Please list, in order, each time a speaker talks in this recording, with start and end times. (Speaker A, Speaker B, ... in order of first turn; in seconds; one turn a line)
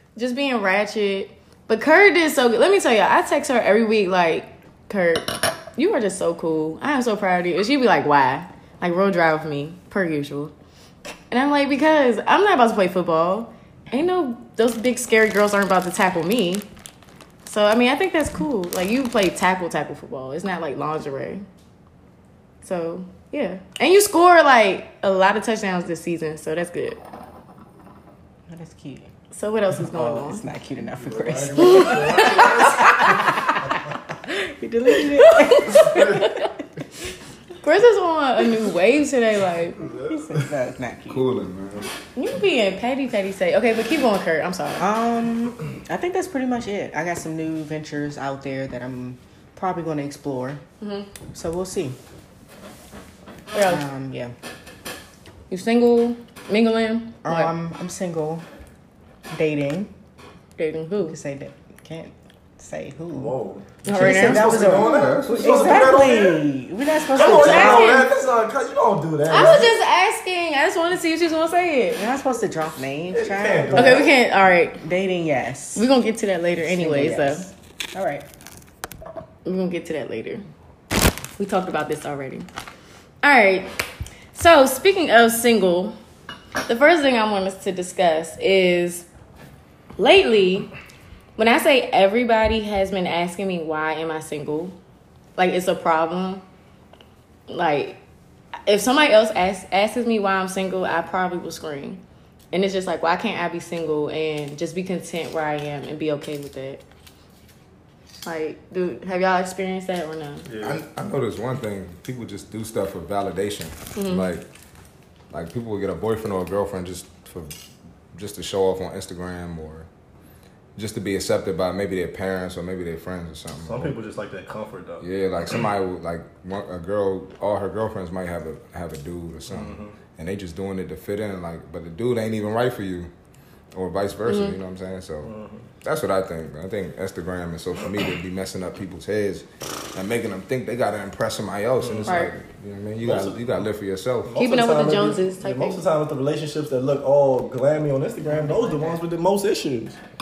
Speaker A: 0.2-10.5
Speaker A: 11.3-16.7
Speaker A: 17.4-21.4
Speaker A: 22.6-27.0
Speaker B: 28.5-29.1
Speaker A: 29.3-30.4
Speaker B: 29.9-33.7
Speaker C: 30.9-33.3
Speaker A: 31.6-33.6
Speaker B: 34.3-36.3
Speaker A: 34.9-36.5
Speaker C: 35.8-36.2
Speaker A: 37.6-39.8
Speaker C: 39.8-40.3
Speaker B: 40.1-41.2
Speaker D: 41.1-41.9
Speaker A: 42.1-44.9
Speaker B: 44.8-50.6
Speaker A: 50.8-51.1
Speaker B: 51.3-52.0
Speaker A: 53.5-53.8
Speaker B: 53.7-54.3
Speaker A: 55.5-57.5
Speaker B: 57.2-58.5
Speaker B: 59.3-59.9
Speaker A: 60.6-61.2
Speaker B: 61.1-63.4
Speaker C: 63.1-66.4
Speaker A: 63.8-64.6
Speaker B: 63.9-68.0
Speaker D: 64.5-65.7
Speaker C: 67.2-69.7
Speaker A: 67.2-68.1
Speaker A: 69.3-72.0
Speaker B: 72.0-74.1
Speaker C: 73.1-74.1
Speaker A: 73.7-74.8
Speaker B: 74.8-75.9
Speaker A: 75.8-77.5
Speaker B: 76.6-78.2
Speaker A: 79.5-80.4
Speaker A: 81.4-82.5
Speaker A: 83.2-83.7
Speaker A: 84.3-86.0
Speaker A: 86.7-89.1
Speaker A: 90.0-90.7
Speaker A: 91.4-94.8
Speaker A: 95.4-96.4
Speaker A: 97.5-98.0
Speaker A: 98.7-102.0
Speaker A: 102.5-106.8
Speaker A: 108.2-110.5
Speaker C: 110.5-110.8
Speaker D: 110.6-114.5
Speaker A: 114.0-114.3
Speaker D: 115.3-117.5
Speaker D: 118.1-119.9
Speaker D: 120.8-123.9
Speaker C: 123.6-125.0
Speaker D: 125.0-133.1
Speaker C: 129.5-130.0
Speaker D: 133.7-144.4
Speaker A: 134.3-134.6
Speaker C: 135.2-135.7
Speaker C: 141.8-142.2
Speaker A: 142.1-142.3
Speaker C: 143.0-143.6
Speaker C: 144.3-150.0
Speaker A: 144.4-145.8
Speaker B: 148.3-149.0